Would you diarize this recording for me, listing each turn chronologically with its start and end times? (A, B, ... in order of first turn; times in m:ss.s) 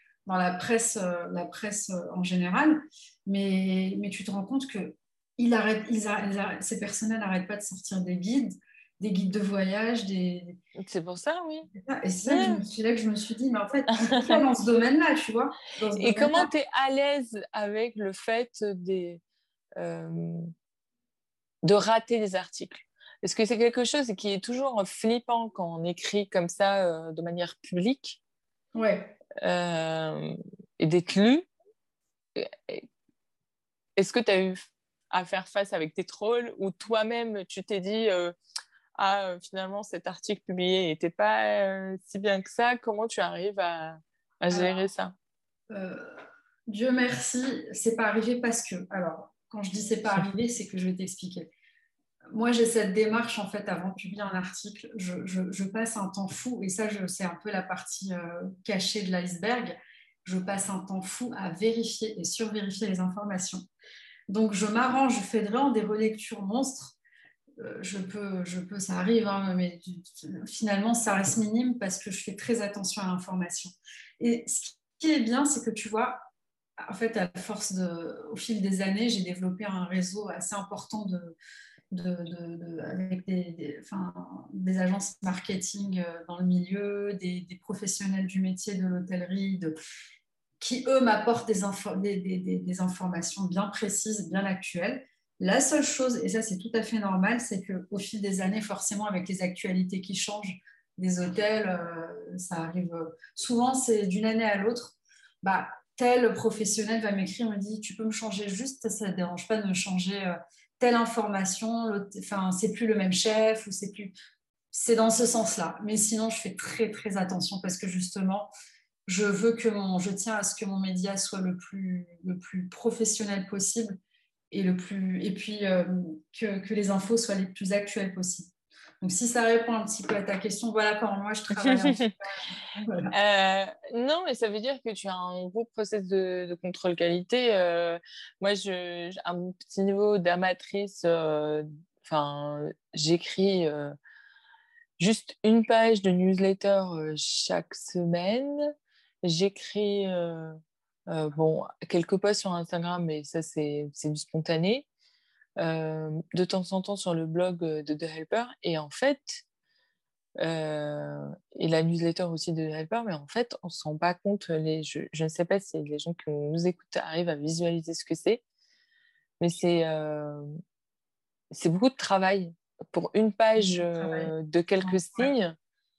0:00.2-0:10.6 A
0:10.8-0:11.7 B
0:11.7-0:16.5 A
0:12.2-0:12.6 B
0:14.1-0:14.4 B
0:16.0-0:19.2 B
0:19.8-0:20.5 B
0:21.6-0:28.2 B
0:28.7-0:29.1 A
0:29.4-0:31.5 B
0:32.3-0:32.8 B
0:34.0-0:38.3 B
0:39.0-0:45.1 B
0:44.5-0:44.9 A
0:45.7-0:46.2 A
0:46.7-0:51.5 A
0:52.3-1:03.6 A
1:04.3-1:07.0 A
1:07.6-1:16.2 A
1:16.8-1:21.3 A
1:21.9-1:29.7 A
1:30.6-1:54.1 A
1:54.7-1:58.5 A
1:59.1-2:04.0 A
2:04.5-2:13.1 A
2:11.6-2:12.1 B
2:13.1-2:23.9 B
2:25.0-2:28.6 B
2:29.2-2:30.6 B
2:31.1-2:34.8 B
2:35.6-2:39.4 B
2:40.4-2:48.4 B
2:49.4-2:50.5 B
2:51.5-2:55.6 B
2:53.6-2:55.3 A